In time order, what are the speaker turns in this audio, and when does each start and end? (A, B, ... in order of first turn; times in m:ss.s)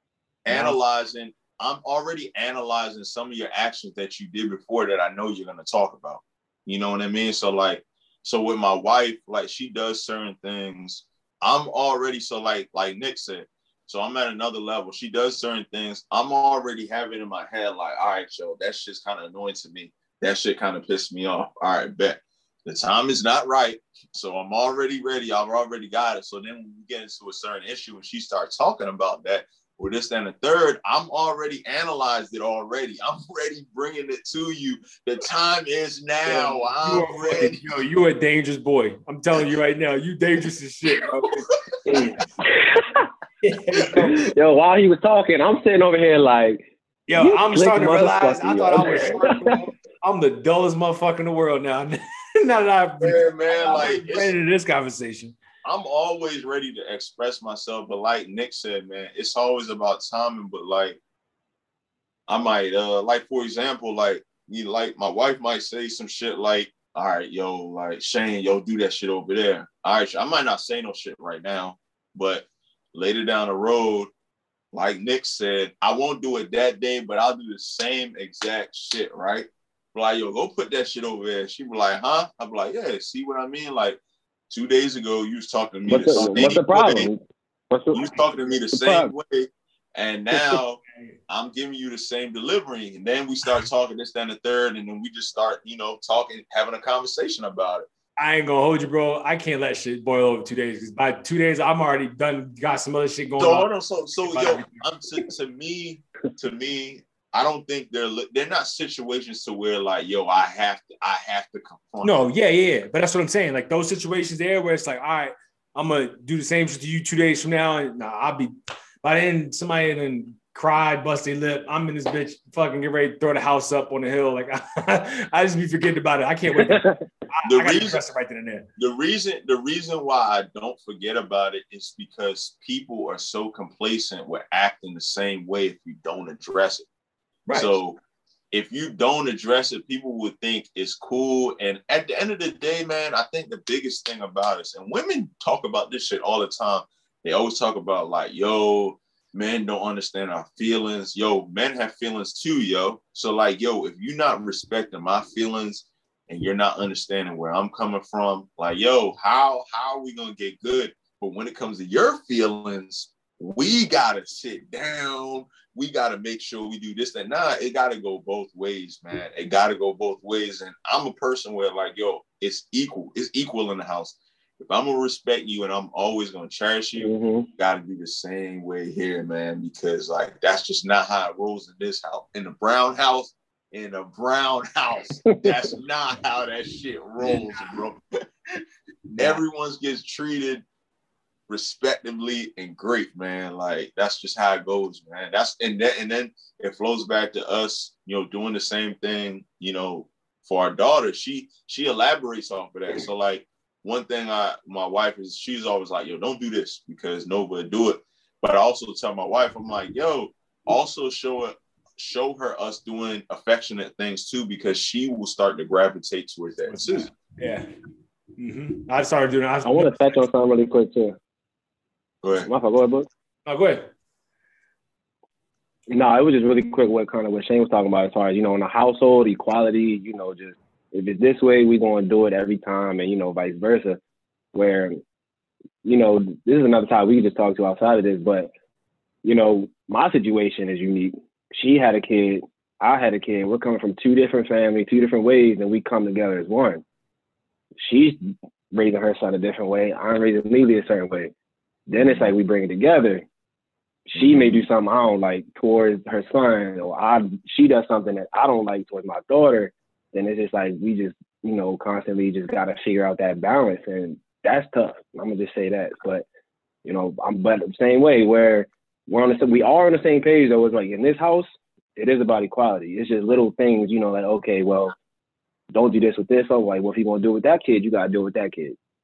0:00.4-0:37.6 A
0:00.5-0:00.8 B
0:36.3-0:36.6 C
0:36.8-0:41.4 B
0:41.8-0:43.0 C
0:43.4-0:44.3 B
0:43.9-0:49.5 C
0:47.1-0:55.3 B
0:53.0-0:54.3 A
0:53.6-0:53.9 C
0:55.6-1:01.0 A
1:02.3-1:14.1 A
1:14.7-1:24.0 A
1:24.5-1:27.1 A
1:25.9-1:27.2 C
1:27.7-1:28.1 C
1:27.9-1:37.9 A
1:28.7-1:29.1 C
1:38.2-1:43.7 B
1:43.4-1:52.2 A
1:44.2-1:44.8 B
1:52.0-1:58.5 B
1:59.0-2:06.9 B
2:06.5-2:07.0 C
2:07.4-2:08.6 B
2:07.4-2:08.0 A
2:08.8-2:16.9 A
2:17.5-2:17.7 B
2:17.5-2:18.0 A
2:18.5-3:08.0 A
2:57.0-2:57.5 C
3:05.3-3:05.6 C
3:07.2-3:07.7 B
3:09.1-3:10.6 A
3:11.5-3:37.1 A
3:36.7-3:37.6 B
3:38.4-3:40.2 B
3:39.6-3:41.2 C
3:42.2-3:42.5 A
3:42.4-3:43.1 C
3:43.4-3:43.8 B
3:45.9-3:54.0 C
3:54.5-3:55.0 C
3:55.8-3:58.5 C
3:59.2-4:06.8 C
4:07.8-4:11.3 C
4:11.9-4:13.2 C
4:14.1-4:26.2 C
4:14.2-4:14.6 A
4:26.8-4:34.9 C
4:35.7-4:38.8 C